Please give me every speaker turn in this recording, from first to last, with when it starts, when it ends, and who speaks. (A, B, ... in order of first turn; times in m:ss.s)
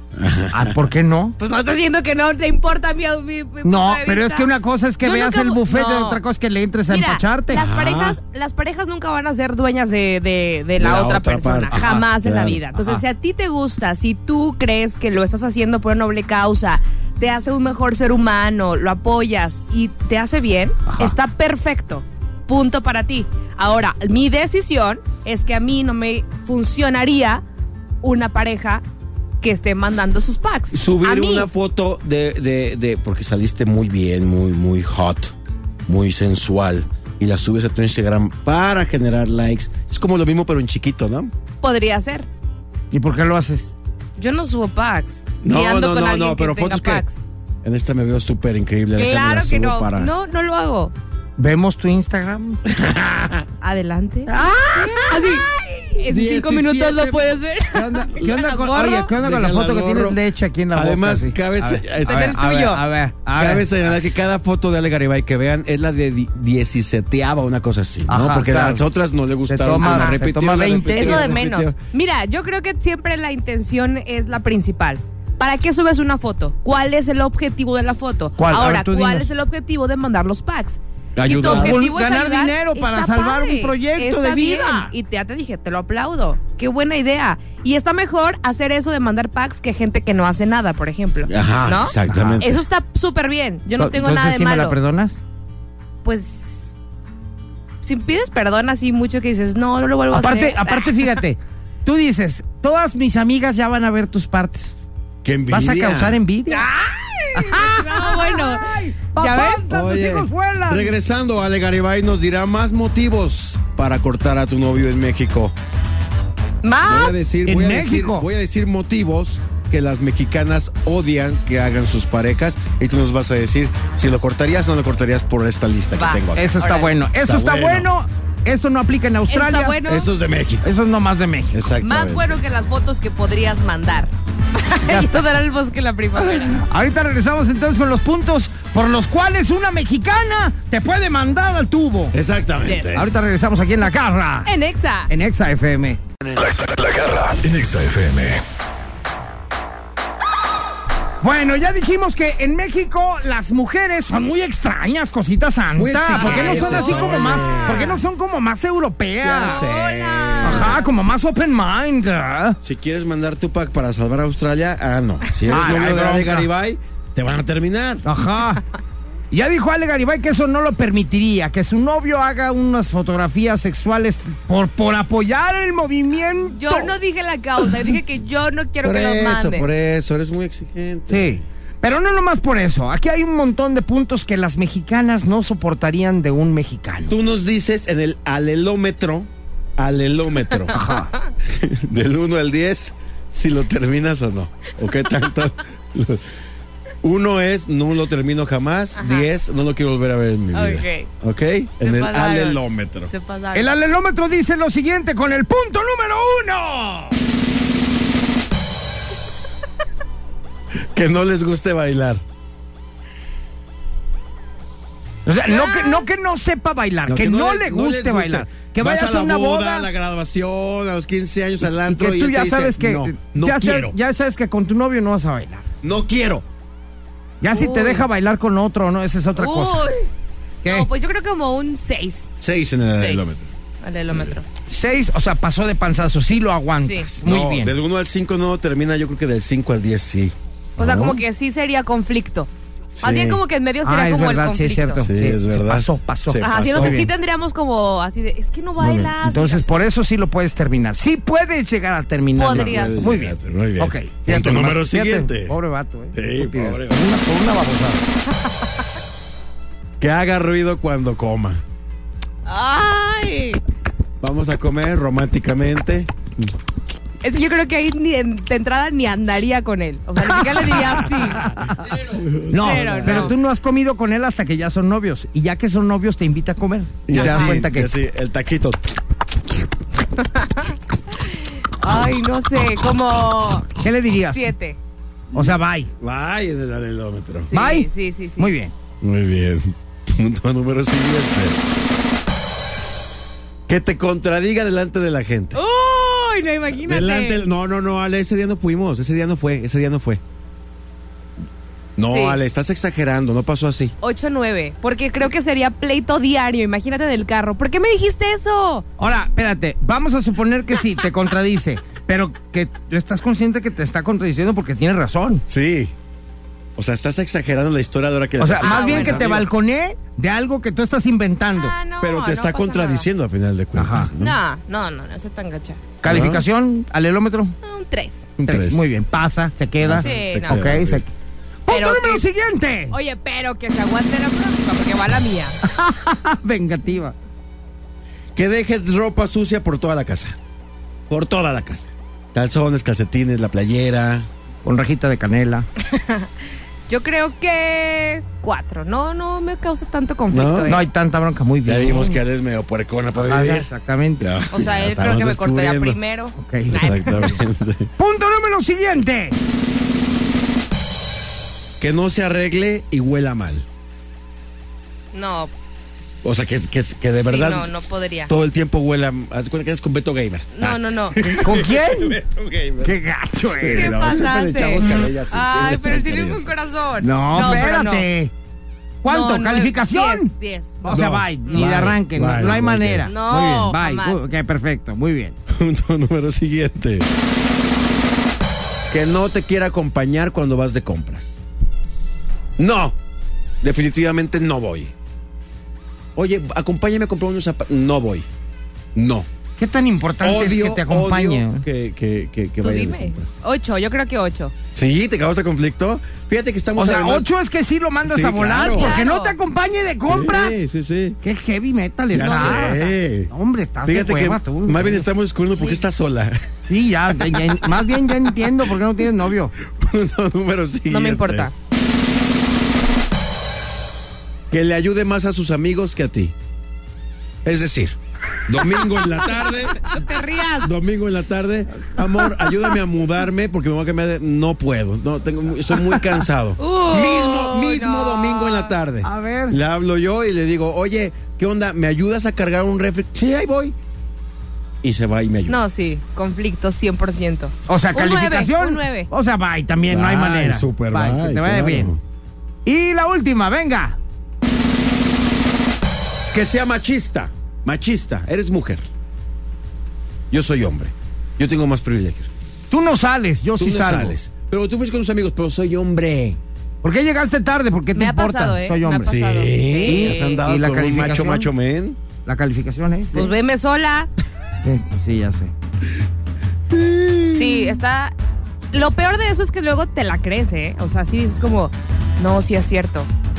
0:00.1-0:00.8 A
0:00.5-0:01.3 B
0:01.4-0:04.5 C
0:03.6-0:07.6 B
0:05.0-0:06.2 C
0:06.9-0:27.4 C
0:07.5-0:08.2 A
0:10.8-0:12.6 A
0:11.7-0:12.1 B
0:12.7-0:13.0 B
0:20.9-0:21.1 B
0:28.0-0:28.8 C
0:29.4-0:31.5 C
0:30.7-0:35.3 A
0:35.9-0:41.3 A
0:41.6-0:42.3 C
0:42.9-0:43.7 B
0:44.2-0:47.2 C
0:45.4-0:47.0 A
0:47.6-0:50.1 A
0:48.9-0:50.9 C
0:51.4-0:52.6 B
0:52.6-0:53.5 A
0:53.6-0:55.5 C
0:54.3-0:56.0 B
0:56.0-0:59.1 C
0:56.1-0:57.4 A
0:57.7-1:03.7 B
0:59.1-1:00.2 A
1:00.7-1:02.4 A
1:02.0-1:02.8 C
1:03.4-1:11.8 A
1:08.1-1:08.8 B
1:09.5-1:11.3 B
1:09.8-1:10.2 C
1:10.8-1:34.8 C
1:18.4-1:19.3 B
1:21.2-1:21.8 A
1:21.3-1:24.9 B
1:31.3-1:32.6 A
1:32.1-1:32.4 B
1:33.8-1:35.2 B
1:36.0-1:36.7 C
1:37.8-1:41.2 C
1:40.1-1:44.7 B
1:45.2-1:46.2 A
1:45.5-1:46.7 B
1:46.5-1:49.7 C
1:47.3-1:50.9 B
1:49.7-1:55.5 A
1:56.6-1:57.1 C
1:56.8-2:06.5 A
1:57.4-1:58.3 B
2:06.0-2:06.9 C
2:06.4-2:09.8 B
2:07.2-2:07.9 A
2:09.3-2:10.1 C
2:09.8-2:10.7 A
2:10.6-2:11.7 B
2:11.5-2:12.4 A
2:11.8-2:16.6 C
2:14.9-2:15.2 B
2:16.2-2:22.2 B
2:22.1-2:23.1 A
2:22.9-2:24.5 B
2:24.4-2:25.1 C
2:25.1-2:26.0 B
2:26.3-2:28.4 D
2:31.2-2:39.7 B
2:35.8-2:38.0 A
2:36.1-2:38.0 C
2:39.2-2:40.8 A
2:39.4-2:40.9 C
2:40.4-2:42.6 B
2:42.6-2:48.0 A
2:45.5-2:46.5 B
2:48.0-2:48.6 B
2:49.3-2:56.9 B
2:56.5-2:59.7 C
2:58.8-3:01.4 A
3:01.1-3:07.1 B
3:07.1-3:10.8 A
3:10.7-3:11.1 B
3:11.4-3:16.2 A
3:17.0-3:23.1 A
3:19.0-3:19.2 C
3:20.5-3:21.1 C
3:21.8-3:23.7 C
3:23.5-3:27.2 B
3:30.9-3:32.2 A
3:35.2-3:39.9 B
3:35.5-3:36.0 C
3:37.1-3:44.0 A
3:41.8-3:45.6 B
3:45.8-3:46.4 A
3:47.4-3:49.9 B
3:47.5-3:48.1 C
3:49.4-3:50.1 C
3:50.6-3:52.3 C
3:52.4-3:53.5 A
3:53.0-3:53.3 C
3:53.8-3:54.4 C
3:54.1-3:54.4 A
3:54.7-3:57.7 B
3:56.8-3:57.1 C
3:57.2-4:01.2 A
4:00.8-4:02.5 C
4:03.0-4:03.4 A
4:03.0-4:05.0 C
4:03.8-4:07.1 B
4:05.0-4:07.0 A
4:06.4-4:09.7 C
4:08.8-4:18.0 B
4:12.4-4:13.0 C
4:12.5-4:15.5 A
4:16.1-4:17.0 A
4:20.0-4:21.6 A
4:22.4-4:23.6 C
4:24.2-4:26.5 A
4:27.2-4:32.0 C
4:30.3-4:31.7 B
4:32.0-4:33.3 A
4:32.5-4:37.9 B
4:32.5-4:33.3 C
4:37.1-4:38.8 A
4:37.1-4:37.5 C
4:40.2-4:44.8 C
4:43.8-4:44.5 B
4:45.3-4:45.9 B
4:45.3-4:47.5 A
4:47.5-4:48.5 C
4:47.5-4:47.9 B
4:48.4-4:48.7 B
4:49.0-4:51.6 A
4:53.7-4:55.6 A
4:55.5-4:57.4 C
4:56.7-5:00.2 A
5:02.0-5:03.9 A
5:02.0-5:02.4 C
5:04.0-5:08.8 C
5:09.0-5:15.4 B
5:15.5-5:15.9 A
5:16.8-5:19.5 A
5:18.4-5:21.7 B
5:18.6-5:19.4 C
5:21.5-5:23.1 C
5:22.0-5:24.4 A
5:23.7-5:24.1 B
5:24.2-5:25.8 C
5:26.0-5:27.6 B
5:26.0-5:26.4 A
5:27.6-5:28.3 C
5:28.4-5:31.1 B
5:28.4-5:28.8 A
5:29.8-5:31.0 A
5:30.0-5:30.6 C
5:31.6-5:32.9 B
5:31.7-5:32.2 C
5:32.9-5:35.6 C
5:35.6-5:37.1 B
5:38.3-5:40.4 A
5:41.1-5:44.3 A
5:44.6-5:45.6 B
5:45.8-5:46.3 C
5:46.9-5:50.9 C
5:50.3-5:50.7 A
5:50.7-5:52.2 B
5:51.6-5:56.0 A
5:53.2-5:54.2 B
5:54.5-5:57.4 C
5:56.4-5:57.4 B
5:56.7-5:57.9 A
5:58.0-5:59.4 B
6:01.8-6:03.6 A
6:05.1-6:05.5 C
6:06.2-6:07.7 A
6:07.2-6:08.3 C
6:08.3-6:12.9 A
6:10.5-6:11.4 C
6:11.4-6:12.2 B
6:12.8-6:14.0 B
6:13.6-6:16.5 A
6:13.6-6:18.1 C
6:17.0-6:18.3 B
6:19.0-6:20.3 B
6:19.0-6:21.9 C
6:20.8-6:25.4 B
6:20.8-6:23.1 A
6:23.0-6:24.2 C
6:25.5-6:27.1 A
6:28.9-6:31.4 A
6:32.6-6:33.0 A
6:33.6-6:34.9 A
6:36.2-6:38.3 A
6:38.9-6:39.3 A
6:39.6-6:41.6 B
6:40.2-6:43.3 A
6:42.6-6:44.5 C
6:44.7-6:47.3 A
6:46.8-6:50.6 B
6:48.0-6:49.0 A
6:48.6-6:49.4 C
6:50.1-6:51.2 A
6:51.2-6:55.0 B
6:52.1-6:53.3 A
6:52.1-6:52.9 C
6:53.8-6:56.4 A
6:56.7-6:59.5 B
6:59.6-7:01.5 A
7:00.9-7:01.5 C
7:04.5-7:06.3 A
7:07.4-7:10.0 A
7:09.3-7:10.7 C
7:10.6-7:23.8 A
7:16.6-7:18.7 C
7:19.0-7:19.6 B
7:24.8-7:25.6 A
7:25.5-7:29.1 C
7:27.7-7:31.9 B
7:29.9-7:32.0 A
7:32.6-7:34.0 B
7:36.3-7:38.8 A
7:40.3-7:42.3 A
7:42.7-7:44.1 B
7:43.6-7:46.4 A
7:46.8-7:49.1 B
7:47.9-7:50.4 C
7:49.0-7:52.0 A
7:49.9-7:51.5 B
7:52.2-7:53.3 B
7:53.1-7:54.1 C
7:54.6-7:55.5 B
7:56.7-7:57.8 A
7:57.3-7:58.1 C
7:58.7-8:03.1 C